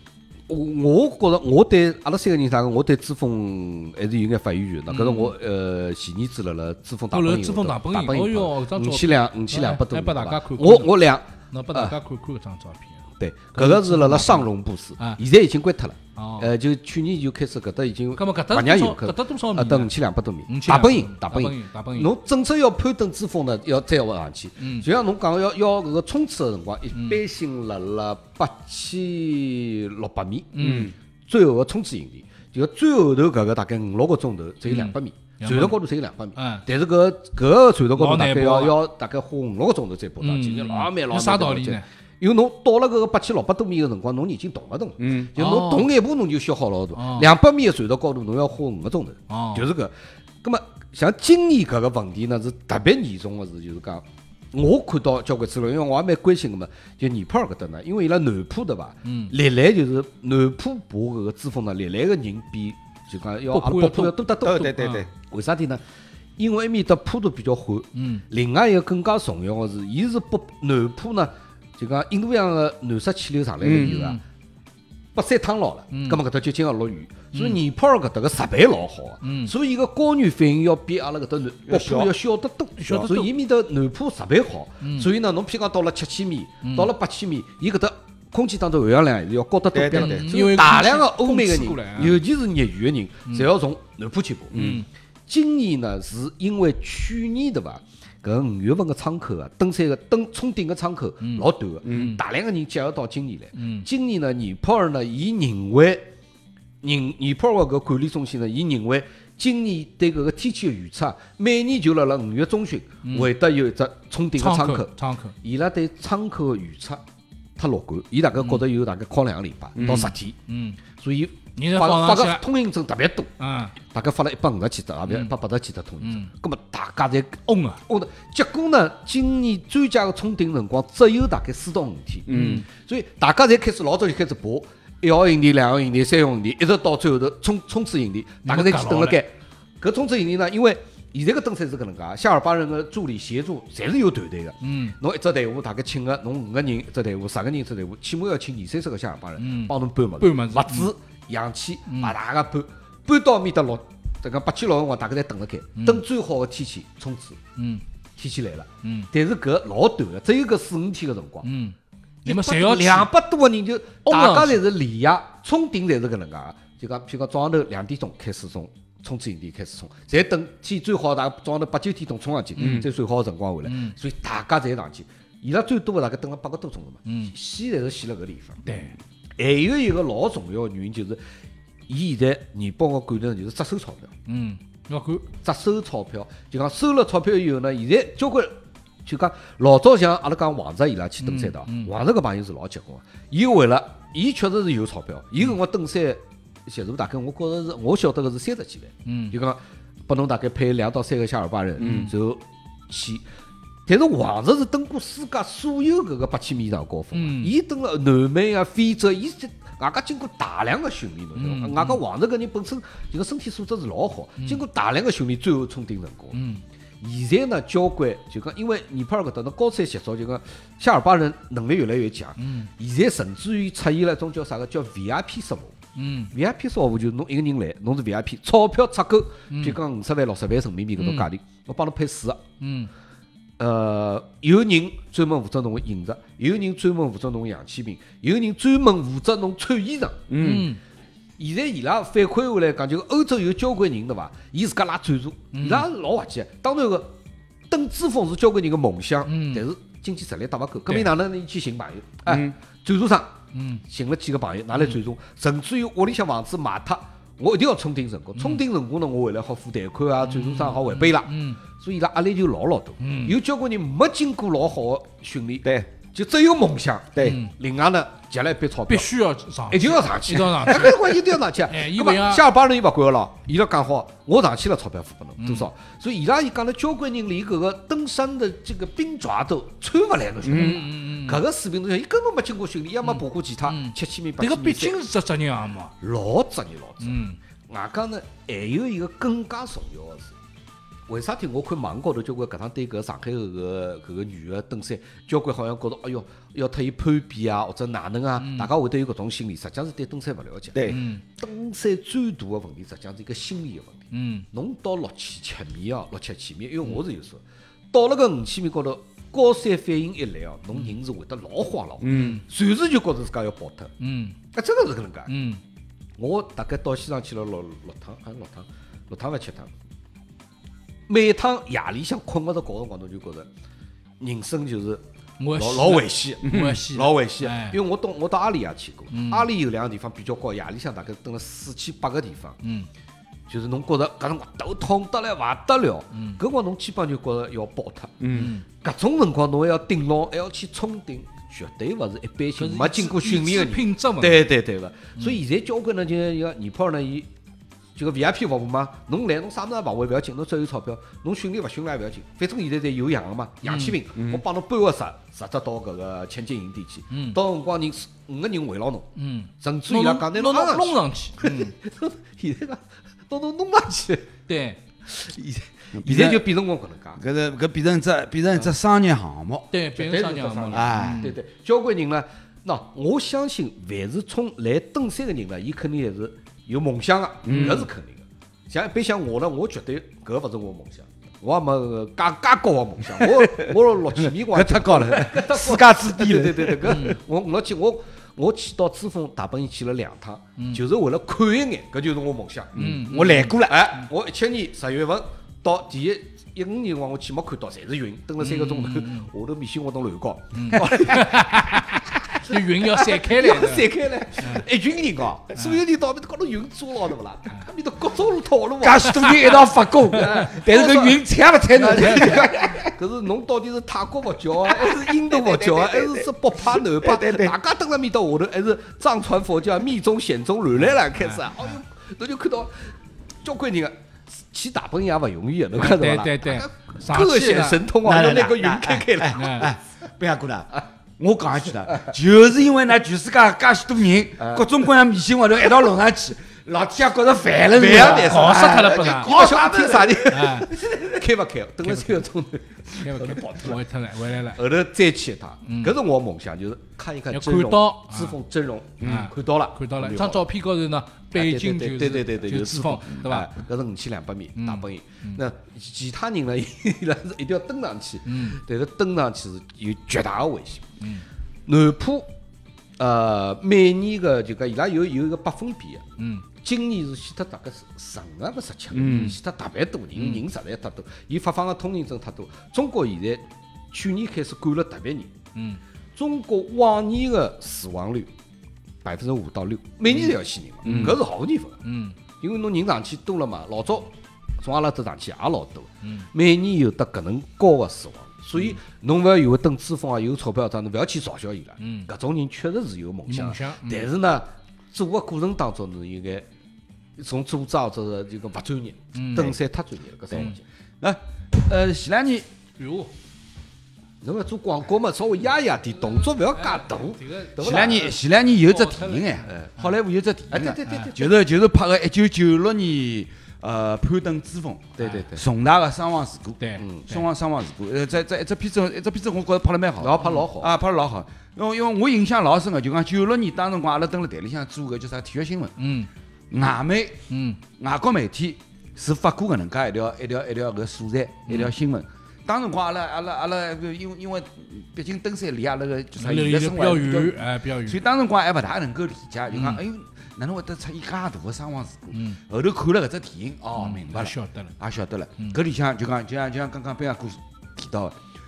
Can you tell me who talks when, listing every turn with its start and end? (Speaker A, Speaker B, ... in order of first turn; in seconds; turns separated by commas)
Speaker A: 0.5-11.9, Speaker B: 4.9-5.3, Speaker B: 7.1-11.0, Speaker B: 11.5-13.0, Speaker A: 13.2-30.7, Speaker B: 13.5-15.2, Speaker B: 16.1-16.5, Speaker B: 18.1-19.9, Speaker B: 20.5-22.1, Speaker B: 24.6-24.9, Speaker B: 26.9-27.2, Speaker B: 30.5-30.9, Speaker C: 30.6-30.9, Speaker A: 31.3-65.8, Speaker B: 34.6-35.8, Speaker B: 36.4-36.6, Speaker B: 37.9-38.8, Speaker B: 40.2-41.9, Speaker C: 45.0-45.3, Speaker B: 45.4-45.9, Speaker B: 46.9-47.3, Speaker B: 49.3-49.7, Speaker B: 59.0-59.3, Speaker B: 63.5-65.1, Speaker C: 64.4-65.0, Speaker A: 66.4-74.2, Speaker B: 67.9-68.2, Speaker C: 73.6-74.0, Speaker B: 73.7-74.2, Speaker A: 75.1-106.1, Speaker B: 75.9-76.2, Speaker B: 77.3-77.6, Speaker B: 79.2-79.5, Speaker C: 81.7-82.1, Speaker B: 82.8-83.3, Speaker B: 84.8-85.1, Speaker B: 86.6-86.9, Speaker C: 89.7-90.3, Speaker B: 89.9-92.2, Speaker C: 94.5-94.8, Speaker B: 94.5-94.8, Speaker B: 101.2-102.2, Speaker C: 101.8-102.2, Speaker B: 103.5-103.9, Speaker A: 106.8-117.0, Speaker B: 113.0-113.3, Speaker B: 114.4-115.3, Speaker A: 117.6-120.3, Speaker B: 118.4-118.6, Speaker C: 119.8-120.1, Speaker B: 120.5-120.8, Speaker A: 121.0-123.3, Speaker B: 121.5-122.4, Speaker B: 123.4-123.7, Speaker A: 123.8-157.4, Speaker B: 125.1-125.3, Speaker B: 126.0-126.3, Speaker B: 127.5-127.8, Speaker C: 132.3-132.6, Speaker B: 132.3-132.7, Speaker B: 138.4-139.2, Speaker B: 144.6-144.9, Speaker B: 149.4-150.9, Speaker B: 151.9-152.1, Speaker B: 155.8-156.0, Speaker B: 157.6-157.8, Speaker A: 158.2-161.4, Speaker B: 158.8-159.1, Speaker B: 161.4-163.1, Speaker A: 162.2-178.7, Speaker B: 164.1-164.6, Speaker C: 172.6-172.9, Speaker B: 172.6-172.8, Speaker B: 173.6-173.9, Speaker B: 177.1-177.3, Speaker B: 178.6-178.9, Speaker A: 179.4-181.2, Speaker A: 181.9-184.1, Speaker B: 184.3-185.3, Speaker A: 185.4-203.2, Speaker B: 191.2-191.9, Speaker B: 199.0-199.3, Speaker C: 201.8-202.1, Speaker B: 201.8-202.1, Speaker A: 203.9-216.4, Speaker B: 207.1-207.5, Speaker B: 211.3-212.0, Speaker B: 216.3-216.6, Speaker A: 217.0-225.8, Speaker B: 222.4-222.7, Speaker B: 225.9-226.3, Speaker A: 226.3-232.4, Speaker B: 229.5-229.8, Speaker B: 231.0-231.3, Speaker B: 232.6-232.9, Speaker A: 233.6-240.3, Speaker C: 240.3-240.7, Speaker B: 240.4-240.8, Speaker A: 241.4-247.1, Speaker B: 245.5-245.9, Speaker A: 247.7-269.1, Speaker B: 249.2-249.6, Speaker C: 252.2-252.5, Speaker B: 253.5-253.8, Speaker B: 258.4-258.6, Speaker B: 260.2-261.6, Speaker B: 263.0-263.4, Speaker B: 267.2-267.5, Speaker B: 268.9-272.4, Speaker A: 269.7-285.0, Speaker B: 275.4-275.7, Speaker C: 280.4-280.9, Speaker B: 280.4-281.4, Speaker B: 283.0-285.9, Speaker A: 286.0-290.3, Speaker B: 287.0-287.4, Speaker A: 291.1-313.9, Speaker B: 298.4-298.7, Speaker C: 300.7-301.0, Speaker B: 300.9-301.2, Speaker B: 304.1-304.4, Speaker C: 312.0-312.4, Speaker B: 312.1-312.4, Speaker B: 314.0-314.4, Speaker A: 314.5-315.3, Speaker B: 315.3-315.6, Speaker A: 316.2-319.7, Speaker A: 321.1-323.5, Speaker A: 324.2-325.0, Speaker B: 325.4-327.8, Speaker A: 325.6-332.6, Speaker C: 326.4-326.8, Speaker B: 329.1-329.5, Speaker B: 332.6-332.9, Speaker A: 333.5-347.3, Speaker B: 336.1-336.4, Speaker C: 338.2-338.5, Speaker B: 338.3-338.6, Speaker B: 342.6-344.4, Speaker A: 347.9-359.1, Speaker B: 353.6-354.0, Speaker C: 354.1-354.4, Speaker B: 357.1-357.4, Speaker B: 359.1-361.7, Speaker A: 359.6-364.3, Speaker B: 364.5-364.8, Speaker A: 365.1-367.2, Speaker C: 365.9-366.4, Speaker C: 367.2-369.7, Speaker B: 369.7-371.4, Speaker A: 369.9-392.8, Speaker C: 370.7-371.3, Speaker C: 377.4-377.9, Speaker C: 383.2-387.1, Speaker B: 386.9-387.2, Speaker B: 390.6-390.8, Speaker C: 392.7-394.0, Speaker B: 392.8-394.1, Speaker A: 393.6-422.9, Speaker B: 398.4-399.3, Speaker B: 400.5-404.6, Speaker B: 405.5-405.8, Speaker C: 408.8-412.9, Speaker B: 409.1-409.4, Speaker B: 411.9-412.4, Speaker C: 414.7-417.5, Speaker B: 420.8-421.8, Speaker A: 423.4-429.7, Speaker B: 425.8-427.9, Speaker C: 428.0-440.4, Speaker B: 429.3-429.7, Speaker A: 434.4-434.7, Speaker A: 437.7-443.8, Speaker B: 437.9-439.3, Speaker B: 440.3-440.7, Speaker B: 441.9-442.2, Speaker B: 443.0-444.6, Speaker A: 444.5-450.4, Speaker B: 445.6-446.0, Speaker B: 447.3-448.4, Speaker C: 449.0-449.3, Speaker B: 449.0-453.5, Speaker A: 451.3-460.9, Speaker B: 454.6-455.4, Speaker B: 458.2-458.6, Speaker A: 461.7-462.3, Speaker A: 463.0-466.0, Speaker B: 466.2-466.4, Speaker A: 466.6-475.3, Speaker C: 468.9-469.4, Speaker B: 470.1-470.4, Speaker B: 475.5-475.8, Speaker A: 476.1-478.3, Speaker A: 479.0-481.8, Speaker B: 480.1-481.2, Speaker B: 481.8-482.2, Speaker A: 482.4-496.4, Speaker B: 486.0-486.3, Speaker B: 491.8-492.1, Speaker B: 493.3-494.1, Speaker A: 497.2-500.6, Speaker B: 499.1-499.6, Speaker C: 501.0-502.5, Speaker B: 502.8-503.1, Speaker A: 504.2-508.2, Speaker B: 506.1-507.9, Speaker C: 507.6-525.7, Speaker B: 508.7-509.5, Speaker A: 509.5-509.7, Speaker A: 510.5-511.3, Speaker B: 510.8-511.1, Speaker A: 515.0-515.4, Speaker B: 515.0-515.3, Speaker B: 516.6-517.2, Speaker A: 516.8-517.1, Speaker A: 520.0-520.7, Speaker B: 525.8-526.1, Speaker C: 526.5-527.2, Speaker B: 527.3-527.6, Speaker C: 527.8-548.2, Speaker B: 536.2-538.0, Speaker B: 539.5-539.8, Speaker B: 542.1-542.4, Speaker B: 543.8-544.7